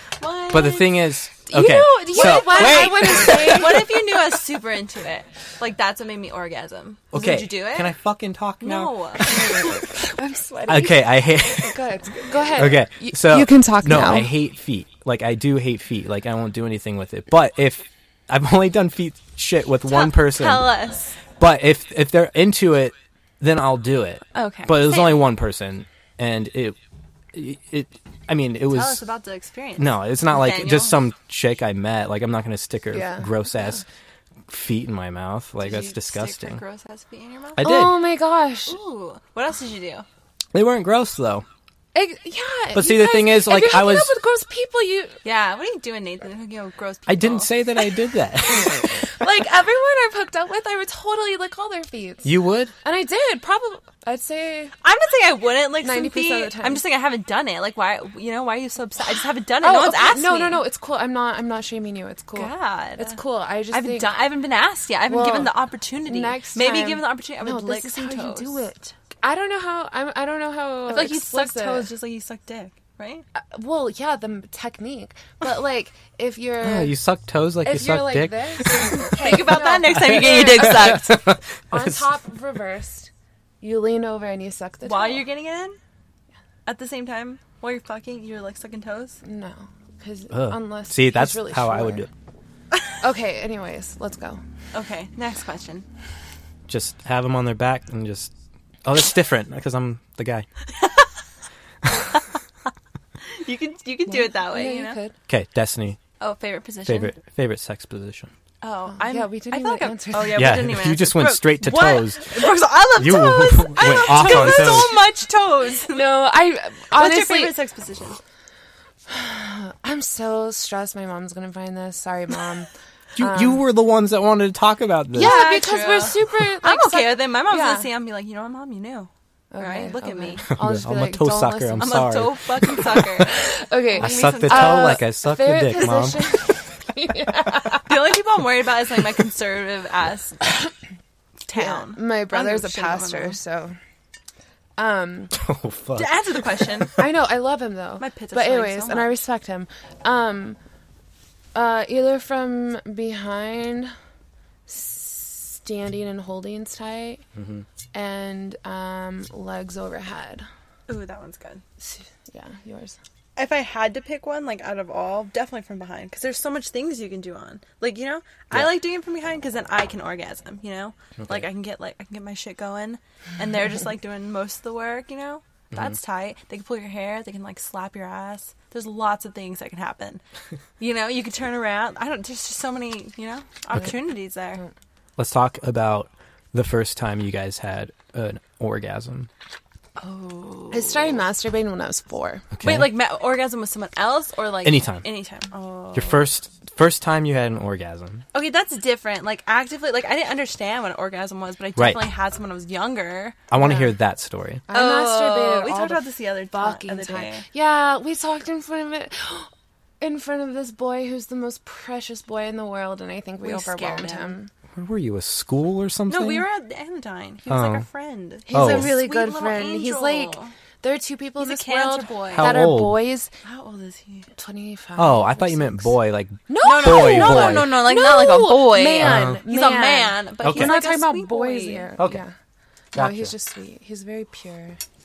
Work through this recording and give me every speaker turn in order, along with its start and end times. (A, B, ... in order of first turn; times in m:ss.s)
0:00.2-0:01.0 A
0:00.5-0:03.8 B
0:01.5-0:04.0 C
0:02.1-0:07.9 A
0:07.1-0:09.4 B
0:08.6-0:09.9 A
0:09.2-0:14.3 C
0:10.7-0:11.8 B
0:12.6-0:20.7 B
0:19.9-0:21.2 A
0:21.4-0:26.8 B
0:24.3-0:25.2 A
0:27.3-0:29.0 B
0:28.7-0:31.0 A
0:29.8-0:33.8 B
0:32.9-0:33.8 C
0:34.5-0:36.6 B
0:35.6-0:37.8 A
0:37.6-0:38.0 B
0:37.6-0:38.8 C
0:38.7-0:40.1 A
0:40.5-0:41.4 B
0:41.9-0:45.2 C
0:42.7-0:44.1 B
0:45.2-0:47.6 A
0:47.1-0:49.1 B
0:48.6-0:54.7 C
0:52.2-0:52.7 B
0:54.8-1:00.6 A
0:55.8-0:56.8 C
0:59.6-1:04.2 C
1:02.4-1:08.6 A
1:05.1-1:11.9 C
1:10.9-1:13.2 A
1:13.4-1:17.0 C
1:16.6-1:18.8 B
1:17.6-1:21.0 C
1:18.9-1:21.2 A
1:20.0-1:22.1 B
1:21.7-1:23.1 C
1:23.6-1:25.2 C
1:24.8-1:25.8 A
1:26.7-1:29.2 A
1:29.2-1:32.1 C
1:30.3-1:32.1 B
1:33.0-1:34.4 C
1:34.7-1:35.9 A
1:36.7-1:38.3 B
1:38.8-1:40.5 B
1:40.8-1:41.1 A
1:43.3-1:45.0 A
1:44.1-1:45.2 C
1:45.3-1:46.0 B
1:46.2-1:47.1 A
1:46.9-1:48.3 B
1:48.6-1:56.0 A
1:49.0-1:50.7 C
1:50.3-1:54.9 B
1:54.2-1:54.9 C
1:55.9-1:57.6 C
1:56.9-1:58.2 A
1:59.1-2:03.6 C
2:03.2-2:05.4 B
2:05.1-2:07.9 C
2:05.2-2:10.5 A
2:09.5-2:12.1 C
2:10.5-2:12.8 B
2:11.8-2:15.0 A
2:13.0-2:17.9 C
2:14.0-2:16.2 B
2:17.8-2:20.4 A
2:21.5-2:23.4 A
2:21.5-2:23.8 C
2:24.8-2:25.3 C
2:25.3-2:26.2 B
2:26.0-2:27.0 A
2:26.9-2:30.6 C
2:28.0-2:29.1 A
2:31.6-2:33.9 C
2:34.7-2:37.2 C
2:37.4-2:37.7 B
2:37.9-2:40.5 C
2:40.9-2:41.6 A
2:41.8-2:43.0 C
2:43.4-3:00.2 A
2:51.2-2:51.5 B
2:55.7-2:56.0 B
3:00.8-3:04.6 A
3:05.2-3:09.3 B
3:10.0-3:11.2 A
3:10.7-3:12.5 C
3:12.6-3:12.9 B
3:12.6-3:16.2 A
3:14.6-3:15.1 B
3:15.9-3:18.2 B
3:18.3-3:23.4 A
3:21.8-3:22.1 B
3:23.5-3:24.6 B
3:23.5-3:23.9 C
3:24.7-3:29.5 C
3:24.7-3:27.4 A
3:30.0-3:34.5 C
3:33.4-3:34.4 A
3:34.8-3:36.5 B
3:36.1-3:40.5 A
3:37.5-3:37.9 B
3:38.5-3:43.3 C
3:38.5-3:38.9 B
3:41.4-3:42.6 A
3:42.3-3:43.0 B
3:43.4-3:44.3 A
3:44.4-3:45.9 C
3:45.0-3:47.8 B
3:46.5-3:52.3 C
3:46.6-3:51.9 A
3:49.0-3:49.4 B
3:50.4-3:50.8 B
3:52.0-3:52.2 B
3:52.9-3:53.3 B
3:52.9-3:54.8 C